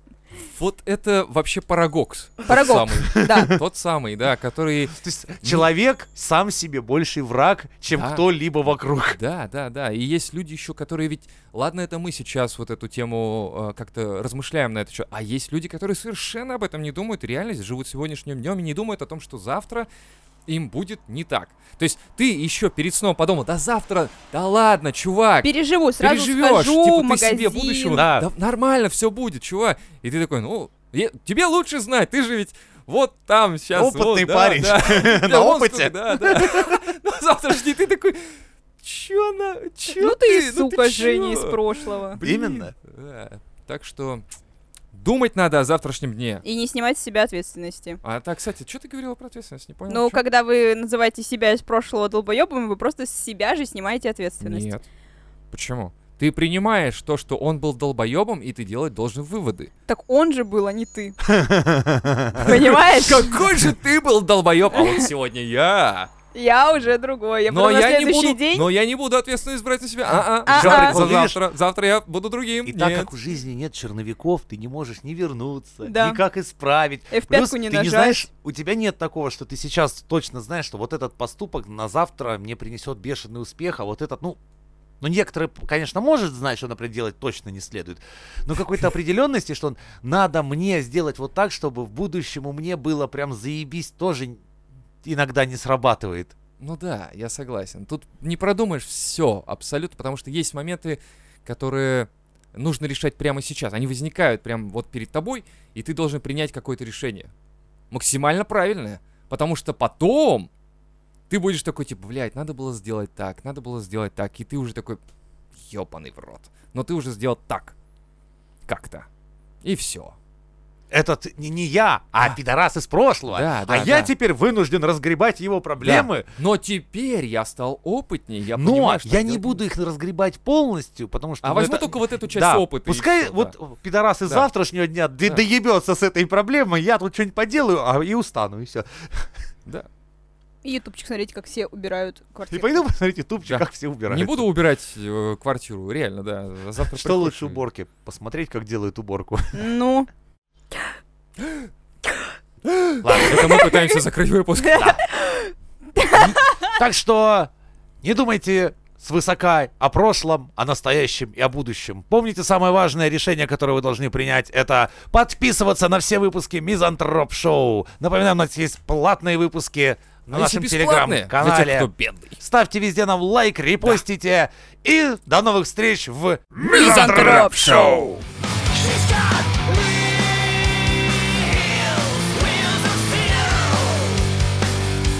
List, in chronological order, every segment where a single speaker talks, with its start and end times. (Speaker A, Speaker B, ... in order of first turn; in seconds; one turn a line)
Speaker A: 0.5-5.7
Speaker B: 2.5-3.5
Speaker C: 3.1-3.5
Speaker C: 4.9-9.2
Speaker A: 7.9-8.3
Speaker A: 9.1-19.9
Speaker A: 20.5-44.2
Speaker B: 25.4-28.0
Speaker C: 27.9-28.3
Speaker C: 33.7-36.8
Speaker B: 39.9-42.2
Speaker C: 42.2-42.7
Speaker A: 44.9-46.4
Speaker B: 46.4-48.0
Speaker A: 48.0-50.2
Speaker B: 49.9-54.7
Speaker A: 54.4-54.8
Speaker A: 55.5-59.7
Speaker B: 59.9-61.2
Speaker C: 61.2-62.7
Speaker B: 62.4-63.4
Speaker A: 62.4-66.1
Speaker B: 64.7-65.1
Speaker B: 66.3-68.7
Speaker A: 67.5-73.1
Speaker C: 70.5-71.4
Speaker B: 70.5-71.0
Speaker C: 72.7-84.4
Speaker B: 75.8-76.2
Speaker B: 77.1-78.2
Speaker C: 85.0-94.4
Speaker C: 95.0-96.3
Speaker A: 96.6-107.3
Speaker A: 107.9-110.5
Speaker A: 111.3-115.0
Speaker A: 115.6-117.7
Speaker A: 118.7-119.1
Speaker A: 119.6-120.2
Speaker C: 120.9-126.2
Speaker A: 123.3-124.1
Speaker A: 125.8-129.6
Speaker C: 128.6-139.3
Speaker A: 131.4-133.5
Speaker B: 140.6-142.8
Speaker C: 142.5-144.5
Speaker A: 143.4-147.6
Speaker C: 146.9-149.7
Speaker B: 149.5-150.1
Speaker A: 151.4-151.7
Speaker A: 152.7-154.9
Speaker C: 153.0-153.7
Speaker B: 153.5-153.9
Speaker B: 154.6-156.7
Speaker C: 156.1-157.5
Speaker C: 158.0-178.2
Speaker A: 170.3-172.4
Speaker B: 176.6-178.1
Speaker C: 182.2-183.8